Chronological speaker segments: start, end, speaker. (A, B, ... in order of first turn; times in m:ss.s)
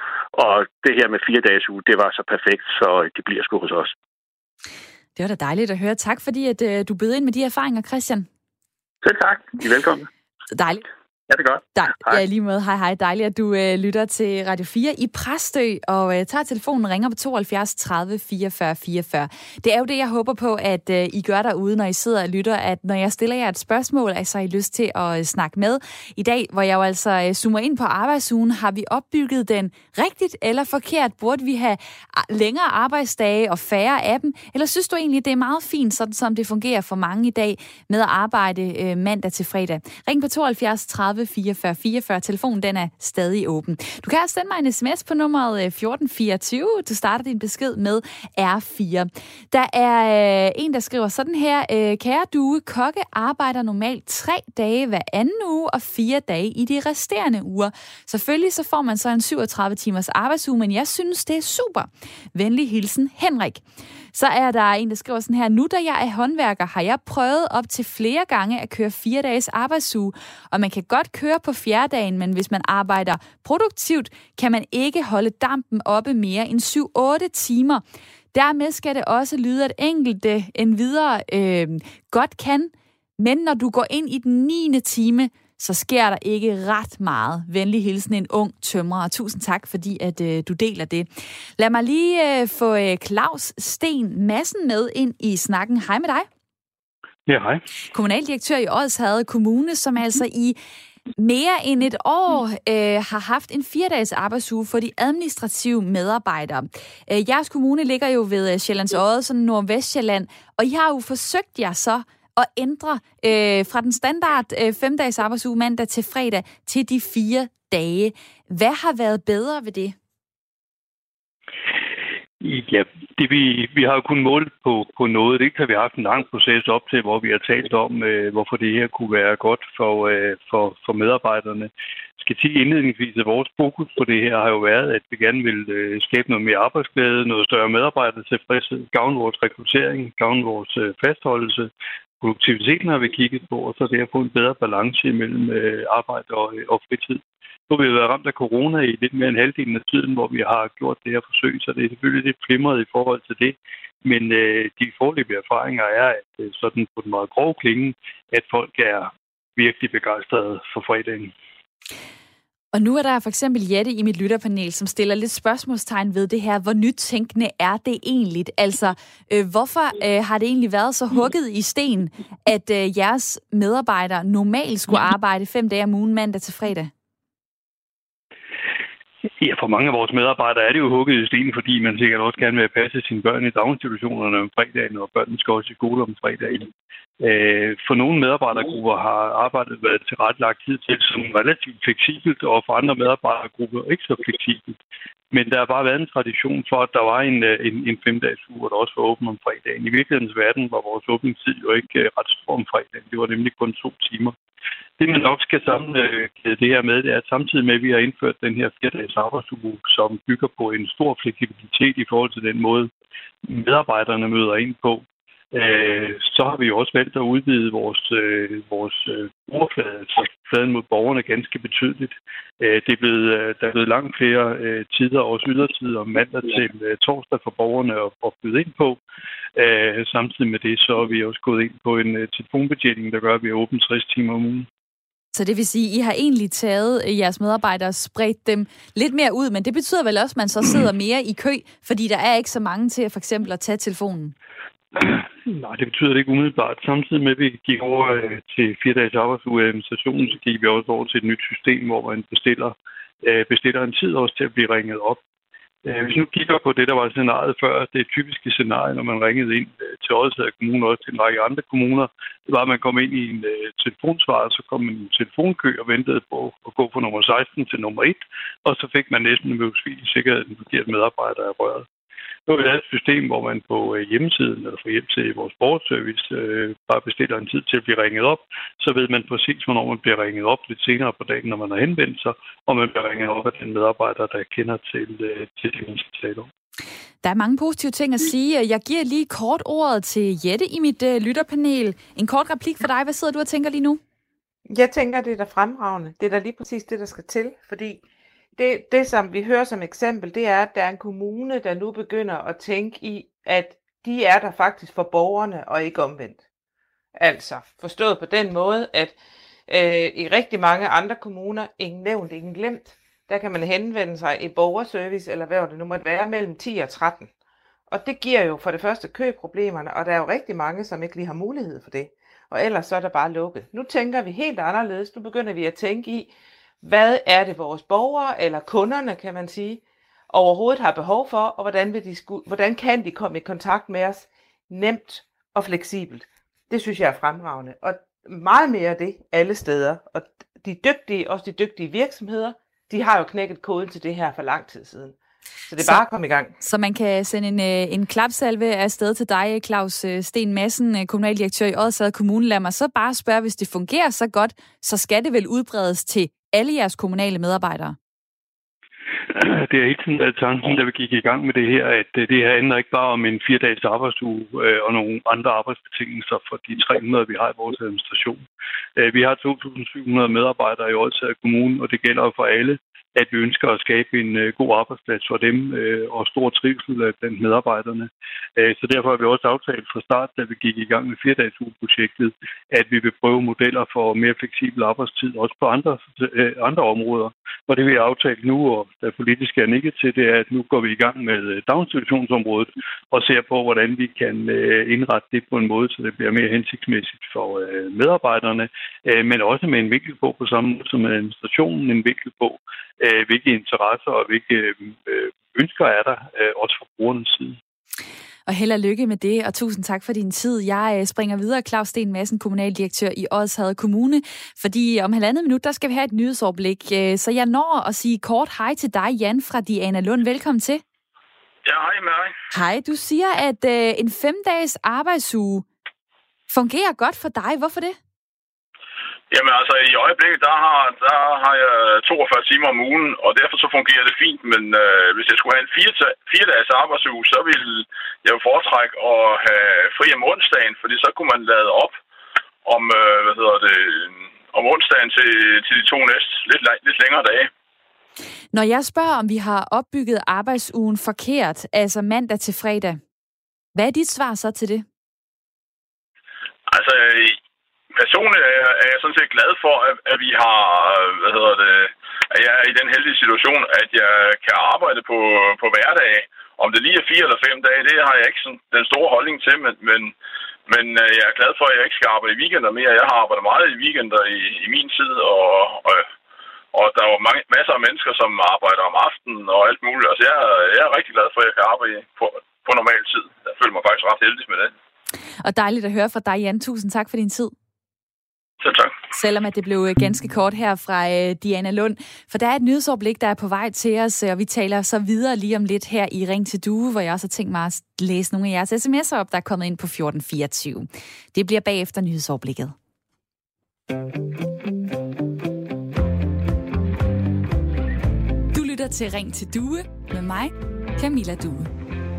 0:00.3-0:03.9 A
0:05.2-0:08.3 B
0:09.0-0:10.1 A
0:10.5-0:10.8 B
0:11.3-0:12.2 A
0:11.8-1:03.6 B
1:04.1-1:36.3 B
1:37.3-1:37.6 C
1:37.9-1:40.6 B
1:41.2-2:00.0 B
2:02.4-2:21.7 C
2:22.2-2:41.3 C
2:42.7-2:56.9 B
2:59.4-3:06.7 C
3:07.2-3:14.8 C
3:15.3-3:24.3 C
3:25.0-3:32.9 C
3:33.4-3:49.0 C
3:49.6-3:54.7 C
3:55.4-4:04.3 B
4:05.0-4:15.2 C
4:15.8-4:31.9 C
4:32.5-4:46.5 C
4:47.2-4:54.0 B
4:54.7-4:58.0 D
4:58.6-5:06.4 D
5:07.1-5:09.2 D
5:09.7-5:17.3 D
5:17.9-5:45.2 D
5:45.7-5:46.5 D
5:46.6-5:58.0 B
5:59.3-6:08.4 C
6:09.0-6:47.6 C
6:48.5-7:00.8 B
7:01.6-7:02.3 E
7:02.5-7:05.6 B
7:06.5-7:08.0 B
7:09.3-7:22.0 E
7:22.6-7:27.5 E
7:28.5-7:33.0 B
7:33.8-7:34.8 B
7:36.7-7:37.4 E
7:37.9-7:50.1 E
7:50.7-7:56.1 E
7:56.7-8:04.7 E
8:05.4-8:07.5 B
8:08.6-8:09.0 E
8:09.1-8:22.7 B
8:28.5-8:31.7 B